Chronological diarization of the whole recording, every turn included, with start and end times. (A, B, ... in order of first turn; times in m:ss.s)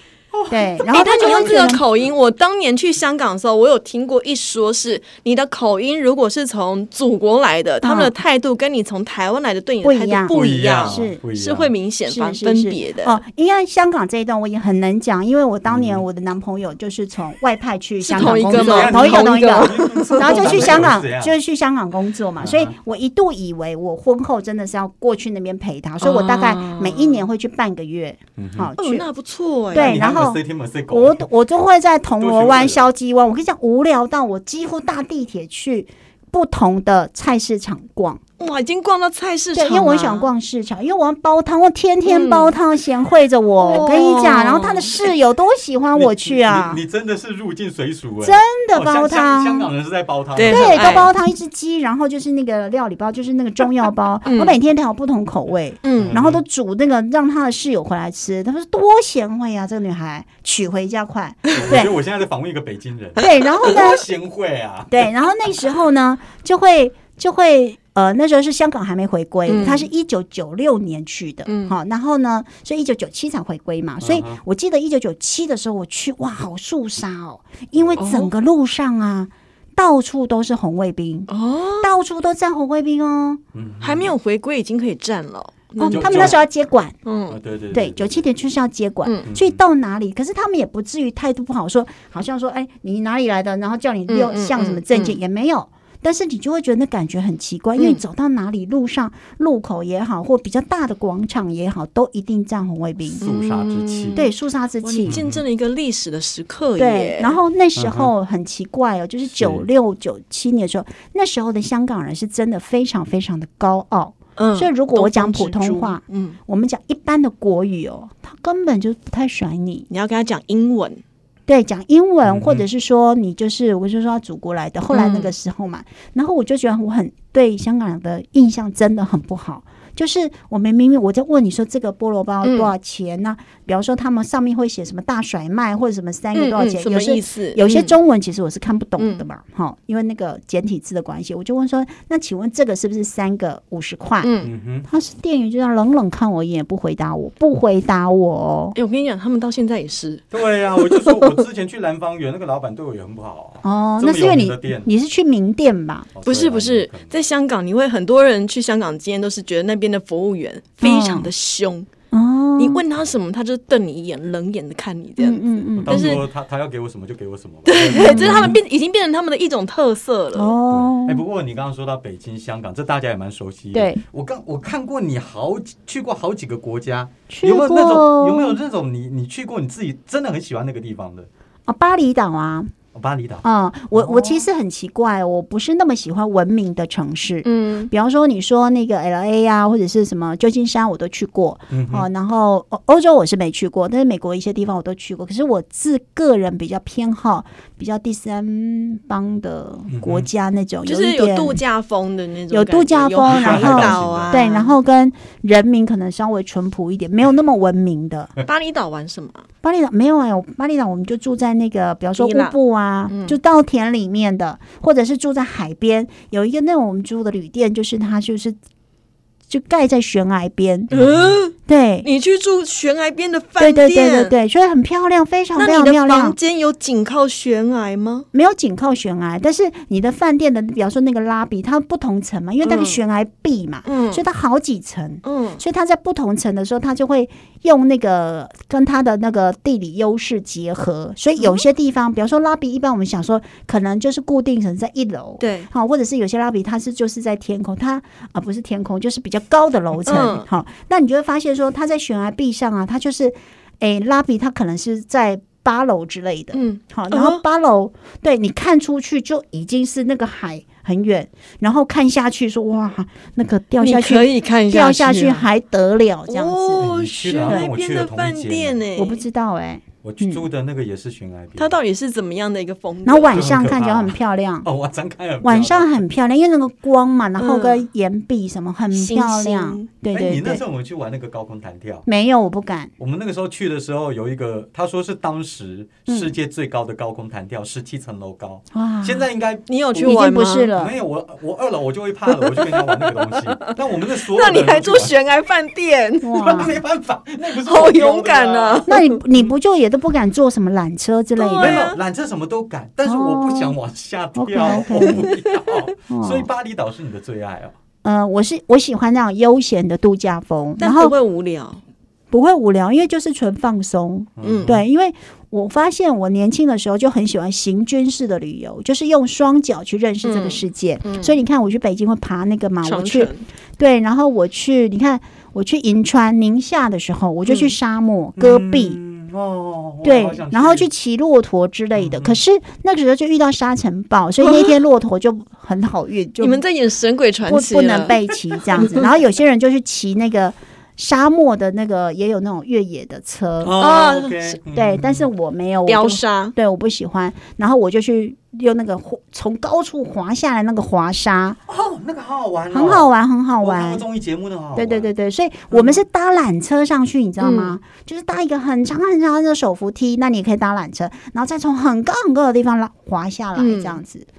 0:00.3-0:00.8 A
0:00.5-0:01.8 B
0:00.9-0:13.2 C
0:07.8-0:08.1 B
0:09.8-0:11.2 B
0:10.3-0:11.7 A
0:12.1-0:29.1 B
0:15.7-0:16.0 A
0:18.0-0:20.8 C
0:18.2-0:21.4 A
0:22.4-0:22.7 A
0:26.0-0:27.2 C
0:28.4-0:28.7 A
0:28.8-0:30.2 C
0:29.7-0:38.2 B
0:29.7-0:31.2 A
0:32.2-0:32.9 A
0:38.4-0:40.3 C
0:39.6-0:46.8 B
0:42.0-0:42.6 C
0:43.6-0:45.1 C
0:46.0-0:51.1 A
0:48.2-0:49.7 B
0:50.4-0:51.1 C
0:50.5-1:01.9 B
0:54.2-0:54.6 C
0:55.8-0:56.2 C
0:56.0-0:56.4 A
1:01.5-1:05.1 A
1:03.2-1:04.1 B
1:04.9-1:21.3 B
1:09.5-1:09.9 C
1:11.5-1:11.8 C
1:14.0-1:14.4 A
1:17.8-1:18.0 A
1:18.0-1:18.3 C
1:21.3-1:21.9 C
1:21.8-1:23.4 B
1:23.5-1:24.1 A
1:23.8-1:26.4 C
1:25.8-1:27.0 B
1:25.9-1:26.4 A
1:27.0-1:27.4 C
1:27.3-1:28.2 A
1:27.7-1:43.2 B
1:29.3-1:29.6 A
1:34.1-1:35.2 C
1:43.2-1:44.2 A
1:43.2-1:47.4 C
1:44.2-1:45.2 B
1:45.1-1:45.4 A
1:46.8-1:59.9 B
1:47.8-1:48.1 A
1:49.3-1:49.6 A
1:54.4-1:56.4 C
1:59.9-2:01.0 C
2:01.5-2:24.3 B
2:02.2-2:02.6 A
2:04.9-2:05.3 C
2:12.4-2:12.7 C
2:16.3-2:18.0 C
2:19.0-2:19.2 C
2:24.2-2:24.5 C
2:24.4-2:24.9 A
2:24.9-2:28.8 B
2:28.8-2:30.3 C
2:30.3-2:34.9 A
2:30.8-2:31.4 C
2:33.6-2:36.1 B
2:36.1-2:37.1 A
2:36.3-2:41.9 C
2:40.8-2:41.3 B
2:42.1-2:42.8 B
2:42.6-2:46.2 C
2:45.2-2:46.1 B
2:45.8-2:48.6 A
2:47.7-2:50.5 C
2:47.9-2:48.6 B
2:50.4-2:51.2 B
2:50.7-3:01.3 A
2:53.7-2:54.0 B
2:57.3-2:58.6 B
3:01.7-3:02.7 B
3:02.9-3:04.4 A
3:03.4-3:21.6 B
3:07.4-3:07.9 C
3:11.7-3:12.1 A
3:19.9-3:20.3 A
3:20.9-3:24.8 C
3:22.5-3:28.3 B
3:23.3-3:24.4 A
3:28.4-3:29.4 C
3:29.6-3:38.6 B
3:32.2-3:32.6 C
3:33.1-3:33.4 C
3:39.5-3:40.9 B
3:40.9-3:41.4 A
3:40.9-3:44.3 C
3:41.7-3:42.1 B
3:43.6-3:46.4 B
3:45.6-3:48.3 C
3:48.3-4:26.9 B
3:52.6-3:53.0 C
3:53.9-3:54.2 C
3:55.2-3:55.6 C
4:01.4-4:01.6 C
4:05.4-4:05.7 C
4:10.1-4:10.5 C
4:16.5-4:17.4 C
4:23.8-4:25.5 C
4:26.3-4:29.2 C
4:26.8-4:28.8 A
4:29.0-4:30.4 B
4:30.0-4:31.8 A
4:31.6-4:33.6 C
4:33.1-4:34.7 B
4:33.3-4:36.0 A
4:35.4-4:40.6 B
4:37.4-4:37.9 C
4:38.9-4:39.9 C
4:40.1-4:42.1 A
4:42.1-4:42.9 B
4:43.0-4:50.2 A
4:46.1-4:46.3 B
4:48.7-4:49.3 B
4:49.7-4:50.7 C
4:50.0-4:50.9 B
4:50.7-4:55.1 A
4:52.3-4:56.5 C
4:56.2-4:56.8 B
4:56.4-4:58.9 A
4:57.6-4:59.2 C
4:58.9-5:01.9 B
5:01.4-5:02.0 C
5:01.6-5:07.7 A
5:03.0-5:03.8 B
5:04.4-5:05.3 B
5:04.7-5:05.8 C
5:06.1-5:06.5 B
5:08.0-5:11.1 B
5:10.8-5:11.8 C
5:12.3-5:29.0 B
5:14.4-5:14.8 A
5:14.4-5:14.8 C
5:20.2-5:21.4 C
5:22.8-5:23.4 C
5:27.5-5:27.7 C
5:28.4-5:30.9 A
5:30.0-5:36.6 B
5:32.0-5:32.4 A
5:34.4-5:34.7 C
5:36.4-5:38.2 C
5:37.5-5:43.8 B
5:43.6-5:45.3 A
5:43.8-5:44.6 C
5:44.7-5:51.6 B
5:45.9-5:46.6 C
5:51.7-5:53.1 A
5:52.7-5:54.0 B
5:53.6-5:55.1 A
5:54.8-6:04.3 B
5:55.7-5:56.0 A
5:57.4-5:57.8 C
6:03.6-6:04.0 C